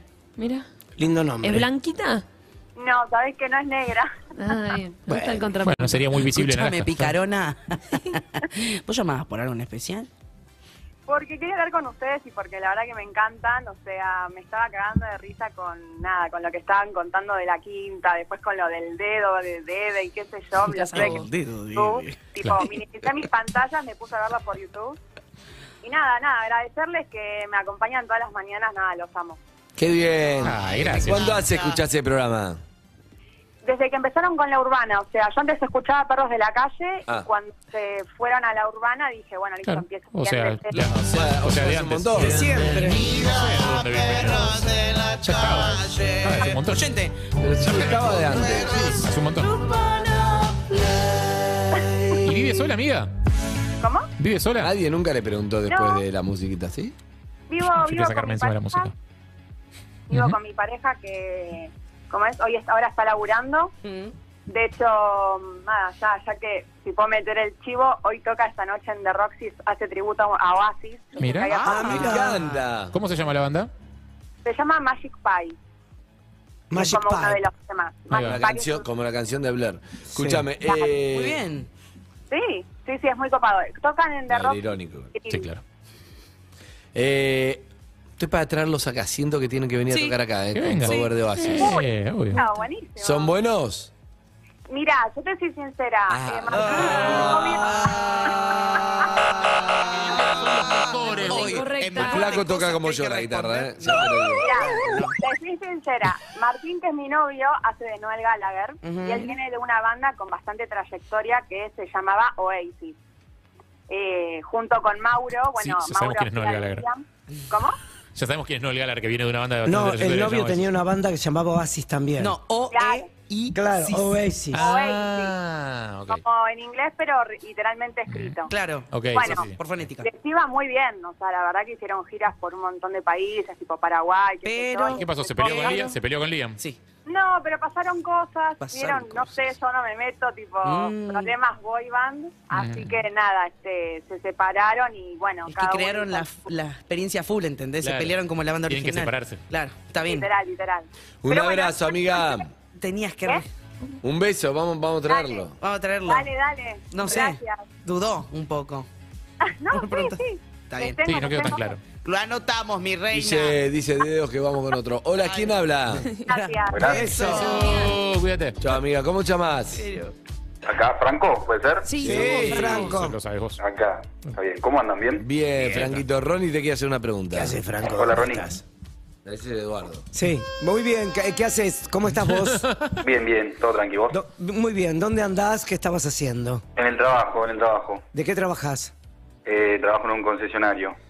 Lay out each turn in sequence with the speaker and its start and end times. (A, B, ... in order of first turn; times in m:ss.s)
0:00.4-0:00.6 A
0:01.0-0:01.7 B
0:01.4-0:02.2 A
0:02.8-0:04.1 C
0:04.4-0:06.1 A
0:05.1-0:05.5 B
0:05.6-0:07.1 D
0:06.2-0:10.1 E
0:11.1-0:25.0 C
0:20.7-0:21.3 A
0:20.9-0:22.2 E
0:25.8-0:29.4 C
0:29.8-0:32.6 F
0:30.4-0:31.4 D
0:31.1-0:31.7 E
0:33.6-0:40.9 C
0:39.6-0:46.9 D
0:41.0-0:42.7 F
0:42.2-0:43.1 B
0:43.1-0:52.3 E
0:47.4-0:49.0 F
0:48.6-0:49.6 D
0:51.8-0:52.1 C
0:52.2-0:53.1 D
0:53.8-0:54.1 C
0:54.2-0:54.7 D
0:54.6-0:56.9 F
0:55.7-0:56.0 C
0:57.5-0:58.9 C
0:57.6-0:58.9 D
1:00.1-1:03.7 C
1:00.1-1:00.4 D
1:03.8-1:04.1 E
1:04.5-1:12.1 C
1:11.2-1:11.5 D
1:11.4-1:12.6 E
1:11.6-1:12.4 B
1:11.9-1:12.9 F
1:12.9-1:13.7 D
1:14.4-1:15.6 C
1:16.7-1:17.4 B
1:16.7-1:18.8 C
1:18.1-1:18.4 D
1:18.1-1:21.4 F
1:20.1-1:20.5 B
1:20.6-1:20.9 C
1:21.1-1:21.7 E
1:22.3-1:24.6 C
1:24.3-1:25.1 F
1:25.1-1:25.5 C
1:25.3-1:25.6 D
1:26.9-1:27.6 F
1:28.2-1:31.8 F
1:29.9-1:30.2 E
1:30.5-1:32.4 D
1:31.5-1:33.3 C
1:33.0-1:33.9 F
1:34.7-1:38.8 C
1:36.1-1:37.8 F
1:36.5-1:38.4 E
1:39.8-1:45.2 E
1:40.3-1:41.7 D
1:41.2-1:42.4 A
1:41.9-1:44.5 F
1:44.3-1:53.0 C
1:48.8-1:49.3 E
1:53.9-1:57.8 C
1:55.6-1:56.8 D
1:58.1-2:00.7 D
1:59.6-2:02.4 B
2:02.2-2:04.7 E
2:02.7-2:03.1 C
2:03.5-2:04.6 B
2:04.5-2:05.4 C
2:04.6-2:06.2 D
2:06.1-2:08.5 C
2:08.1-2:08.4 D
2:08.5-2:10.1 E
2:08.9-2:09.6 D
2:09.1-2:09.5 C
2:10.0-2:16.0 C
2:14.4-2:15.8 E
2:15.0-2:16.6 D
2:17.0-2:26.4 C
2:18.6-2:19.5 E
2:20.6-2:21.3 E
2:22.5-2:23.0 D
2:25.4-2:30.3 E
2:27.8-2:29.4 D
2:30.0-2:32.4 C
2:31.2-2:32.5 F
2:32.8-2:33.5 E
2:34.0-2:35.5 F
2:35.1-2:35.5 C
2:35.6-2:36.3 E
2:36.1-2:37.6 C
2:36.9-2:38.9 E
2:39.4-2:41.8 C
2:39.7-2:41.0 E
2:41.0-2:41.8 D
2:42.0-2:43.6 E
2:43.1-2:46.1 F
2:45.2-2:45.7 E
2:46.3-2:47.1 C
2:46.3-2:47.8 E
2:46.7-2:47.1 G
2:46.8-2:47.7 B
2:47.2-2:48.6 D
2:47.4-2:47.9 A
2:48.6-2:49.8 F
2:49.7-2:50.1 E
2:50.6-2:52.0 G
2:51.8-2:52.9 A
2:52.0-2:53.2 B
2:52.0-2:53.6 D
2:53.6-2:55.2 G
2:55.2-2:57.6 F
2:55.6-2:56.0 D
2:57.3-2:58.6 B
2:57.9-2:58.5 G
2:59.2-3:00.1 F
3:00.1-3:02.7 B
3:02.1-3:02.9 D
3:03.0-3:04.2 G
3:04.1-3:06.6 B
3:06.8-3:08.0 G
3:08.1-3:08.9 B
3:09.4-3:10.9 G